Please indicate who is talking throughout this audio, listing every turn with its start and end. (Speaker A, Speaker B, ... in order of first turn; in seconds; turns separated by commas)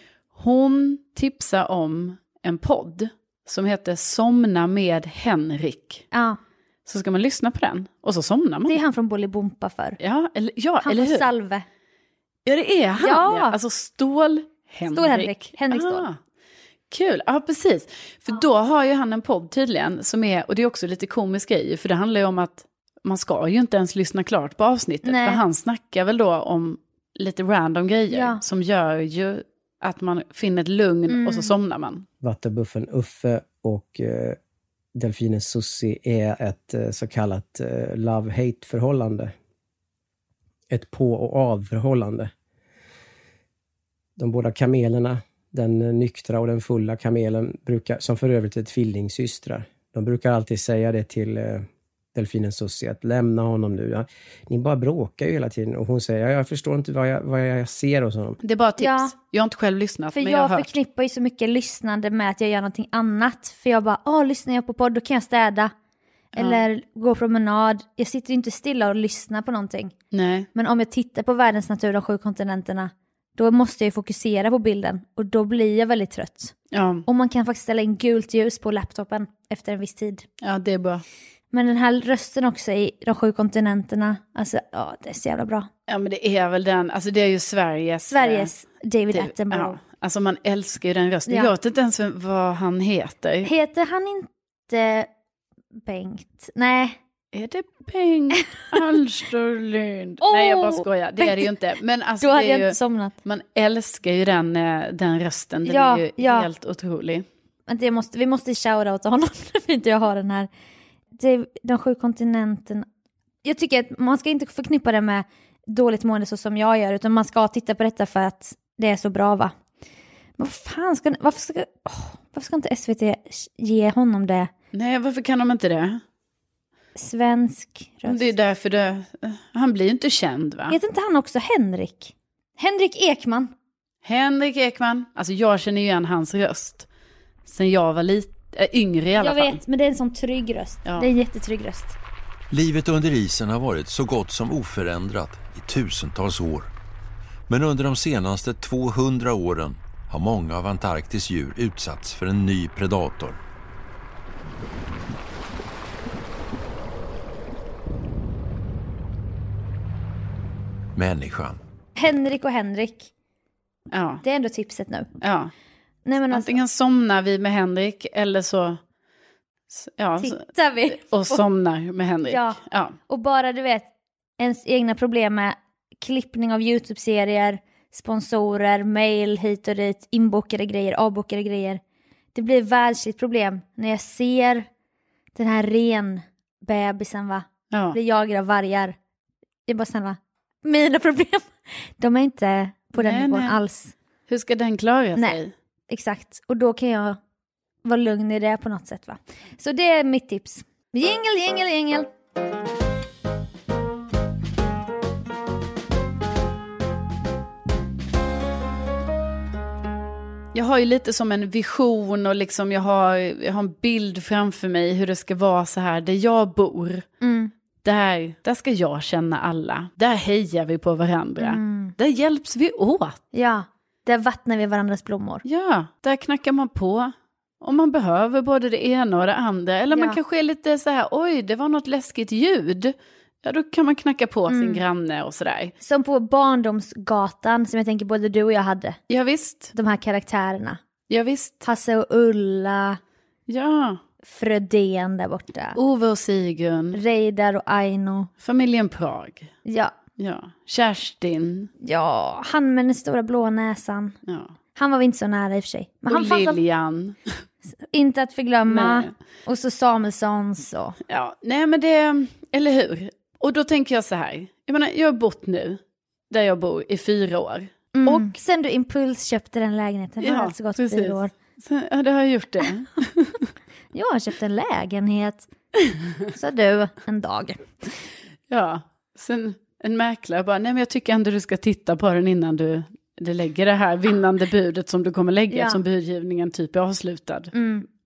Speaker A: 0.3-6.0, Speaker B: 6.1-6.4, Speaker A: 6.8-8.8, Speaker B: 8.7-10.0, Speaker A: 10.0-11.2, Speaker B: 10.8-11.7, Speaker A: 12.4-16.1, Speaker B: 13.0-13.6, Speaker B: 14.9-16.1, Speaker A: 16.9-32.0, Speaker B: 25.1-25.4, Speaker B: 28.1-28.4, Speaker B: 31.1-31.5, Speaker C: 32.2-34.4, Speaker C: 34.9-39.3, Speaker C: 40.7-42.3, Speaker C: 44.2-58.4, Speaker A: 58.4-60.7, Speaker B: 58.8-59.1, Speaker B: 60.1-65.7, Speaker A: 66.3-66.6, Speaker B: 66.3-69.9, Speaker A: 70.1-70.5, Speaker B: 70.5-76.5, Speaker A: 76.7-77.0, Speaker B: 77.0-80.2, Speaker A: 80.4-81.0, Speaker B: 81.5-85.7, Speaker A: 85.9-88.5, Speaker B: 88.1-89.8, Speaker A: 89.1-93.5, Speaker B: 93.4-95.1, Speaker B: 95.7-97.0, Speaker A: 97.3-107.2, Speaker B: 100.2-101.5, Speaker B: 102.2-103.1, Speaker B: 105.7-106.5, Speaker B: 107.7-110.5, Speaker B: 111.2-112.8, Speaker B: 113.4-119.5, Speaker B: 120.4-124.5, Speaker A: 124.7-126.0, Speaker B: 127.0-128.3, Speaker A: 128.1-130.8, Speaker B: 130.7-133.5, Speaker A: 134.0-136.9, Speaker A: 137.4-139.6, Speaker B: 139.2-141.9, Speaker D: 142.5-146.7, Speaker D: 147.5-153.4, Speaker D: 160.9-161.6, Speaker B: 161.9-163.1, Speaker A: 163.9-164.2, Speaker B: 164.2-165.1, Speaker A: 165.2-165.5, Speaker B: 166.1-166.6, Speaker A: 166.3-168.8, Speaker A: 169.7-172.9, Speaker B: 170.2-171.4, Speaker B: 172.3-181.8, Speaker B: 182.3-184.7, Speaker B: 185.3-188.9, Speaker A: 187.7-188.0, Speaker B: 189.7-193.9, Speaker A: 193.0-193.6, Speaker A: 194.3-195.5, Speaker B: 195.9-197.2, Speaker B: 197.8-202.1, Speaker A: 210.5-217.1, Speaker B: 217.2-217.5, Speaker A: 217.8-223.2, Speaker B: 221.4-221.9, Speaker B: 223.3-225.4, Speaker A: 225.4-235.7, Speaker B: 229.9-230.2, Speaker B: 234.5-234.8, Speaker B: 235.8-239.0, Speaker A: 239.1-239.7, Speaker B: 239.7-240.8, Speaker A: 241.1-241.7, Speaker B: 241.6-243.0, Speaker A: 243.5-244.0, Speaker B: 244.2-245.8, Speaker A: 245.7-247.0, Speaker B: 246.9-248.3, Speaker A: 248.4-249.5, Speaker B: 249.7-249.9, Speaker A: 250.2-251.7, Speaker B: 251.8-254.2, Speaker A: 254.3-254.5, Speaker B: 254.8-256.6, Speaker A: 256.1-257.3, Speaker B: 257.9-261.0, Speaker A: 258.7-259.1, Speaker A: 261.1-265.8, Speaker A: 266.3-268.3, Speaker B: 267.9-271.3, Speaker A: 270.2-273.4, Speaker B: 273.9-275.5, Speaker B: 276.3-277.7, Speaker A: 278.5-287.5, Speaker B: 285.5-285.8, Speaker B: 287.5-287.9